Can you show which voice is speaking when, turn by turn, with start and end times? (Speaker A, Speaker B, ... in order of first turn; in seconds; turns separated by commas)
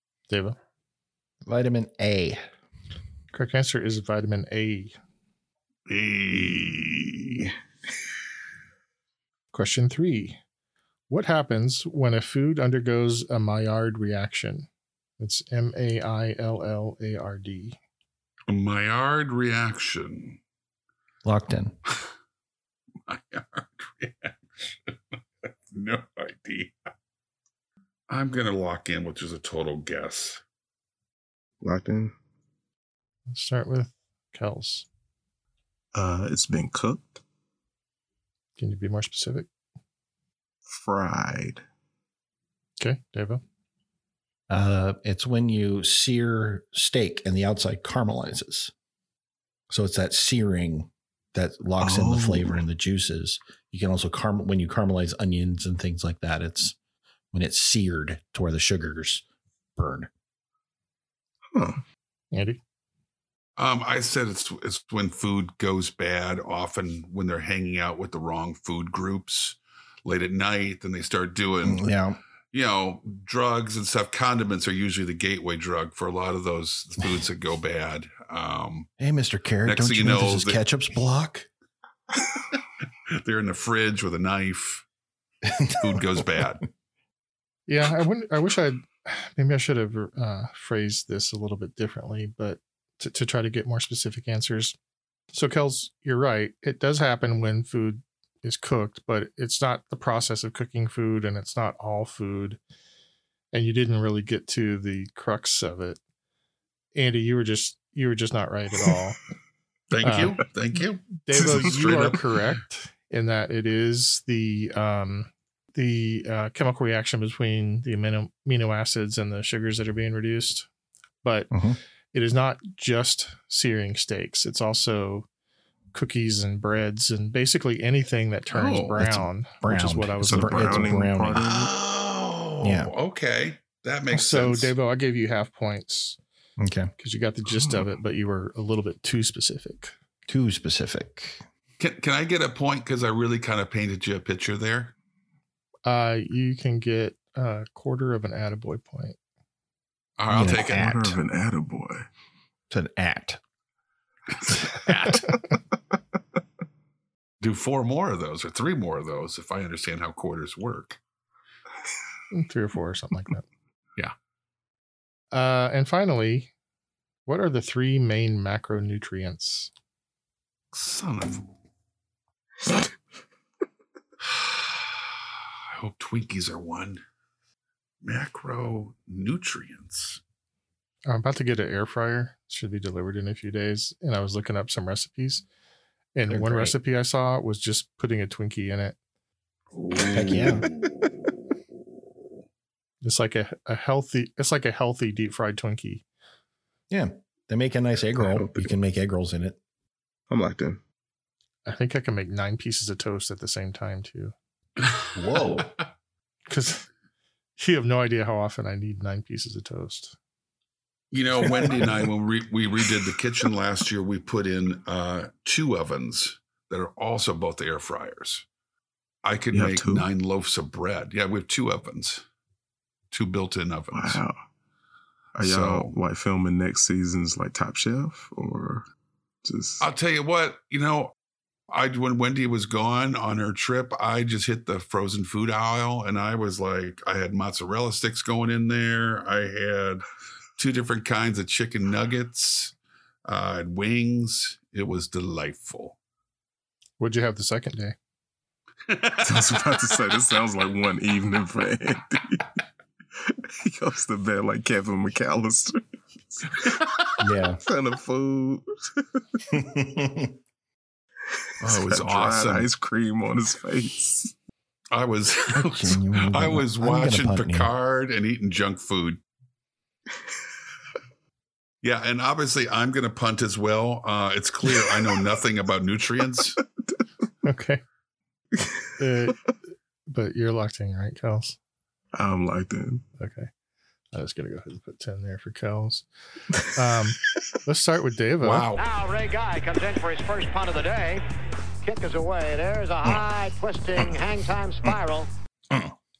Speaker A: 0.3-0.6, Speaker B: 1.4-2.4, Speaker A: 3.3-5.0, Speaker C: 5.9-7.5, Speaker A: 9.5-10.4, Speaker A: 11.1-14.7, Speaker A: 15.2-17.8, Speaker C: 18.5-20.4, Speaker B: 21.2-21.8, Speaker C: 23.1-24.9, Speaker C: 25.7-26.7, Speaker C: 28.1-30.4, Speaker D: 31.6-32.1, Speaker A: 33.3-34.9, Speaker D: 35.9-37.2, Speaker A: 38.6-39.5, Speaker D: 40.7-41.6, Speaker A: 42.8-43.4, Speaker B: 44.5-48.7, Speaker B: 49.7-56.8, Speaker D: 51.8-52.6, Speaker B: 57.3-59.2, Speaker B: 59.8-60.1, Speaker D: 61.5-61.8, Speaker A: 62.3-62.6, Speaker C: 63.6-71.9, Speaker B: 71.6-72.2, Speaker C: 72.5-78.9, Speaker B: 79.0-81.5, Speaker C: 79.7-80.6, Speaker C: 83.1-84.8, Speaker B: 85.5-85.8, Speaker C: 85.7-86.7, Speaker A: 87.7-94.8, Speaker A: 95.3-102.6, Speaker A: 103.5-106.0, Speaker A: 107.0-109.2, Speaker C: 109.9-112.2, Speaker A: 110.0-110.4, Speaker A: 111.2-120.7, Speaker D: 111.3-111.8, Speaker A: 121.2-121.5, Speaker B: 121.5-121.8, Speaker A: 122.1-125.3, Speaker A: 125.9-131.1, Speaker C: 128.5-129.0, Speaker B: 129.0-131.5, Speaker D: 130.2-131.7, Speaker C: 131.3-134.7, Speaker B: 132.6-132.9, Speaker A: 134.1-136.2, Speaker B: 136.6-136.9, Speaker A: 137.0-139.9, Speaker D: 137.5-137.9, Speaker B: 140.3-141.4, Speaker C: 141.8-144.9, Speaker A: 145.8-149.2, Speaker C: 150.2-150.9, Speaker B: 150.3-151.2, Speaker D: 150.6-152.1, Speaker B: 152.7-153.4, Speaker C: 154.4-155.2, Speaker C: 157.4-161.0, Speaker A: 162.3-163.4, Speaker A: 165.3-166.5, Speaker A: 167.3-169.7, Speaker C: 170.7-171.5, Speaker C: 174.3-174.9, Speaker C: 175.7-177.0, Speaker C: 178.0-180.2, Speaker A: 181.1-185.4, Speaker A: 186.2-189.0, Speaker B: 186.3-186.8, Speaker C: 189.7-191.4, Speaker B: 190.0-190.7, Speaker A: 193.0-196.0, Speaker B: 196.9-199.6, Speaker D: 198.2-198.8, Speaker D: 200.3-200.8, Speaker A: 201.7-204.3, Speaker C: 204.9-205.7, Speaker B: 205.2-205.7, Speaker A: 206.5-206.9, Speaker A: 207.6-210.2, Speaker C: 211.1-218.4, Speaker C: 219.2-222.2, Speaker D: 219.5-220.1, Speaker C: 223.1-224.2, Speaker D: 223.9-224.4, Speaker D: 225.4-228.9, Speaker C: 225.4-225.9, Speaker D: 229.4-229.8, Speaker C: 229.8-231.1, Speaker C: 231.7-240.1, Speaker C: 240.6-242.7, Speaker C: 243.3-246.0, Speaker A: 247.0-248.0, Speaker C: 248.9-249.6, Speaker D: 249.2-252.5, Speaker D: 253.2-255.8, Speaker D: 256.3-256.9, Speaker B: 257.2-257.6, Speaker D: 257.6-259.2, Speaker B: 259.5-260.3, Speaker C: 261.6-262.7, Speaker D: 261.6-264.3, Speaker C: 264.9-269.2, Speaker B: 265.5-267.7, Speaker C: 271.8-276.6, Speaker A: 277.4-277.8, Speaker A: 279.0-279.4, Speaker A: 280.1-281.6, Speaker D: 282.1-283.0, Speaker A: 283.2-283.5, Speaker A: 284.1-286.1, Speaker A: 286.7-288.7, Speaker C: 288.4-288.8, Speaker E: 288.8-291.2, Speaker E: 291.8-295.3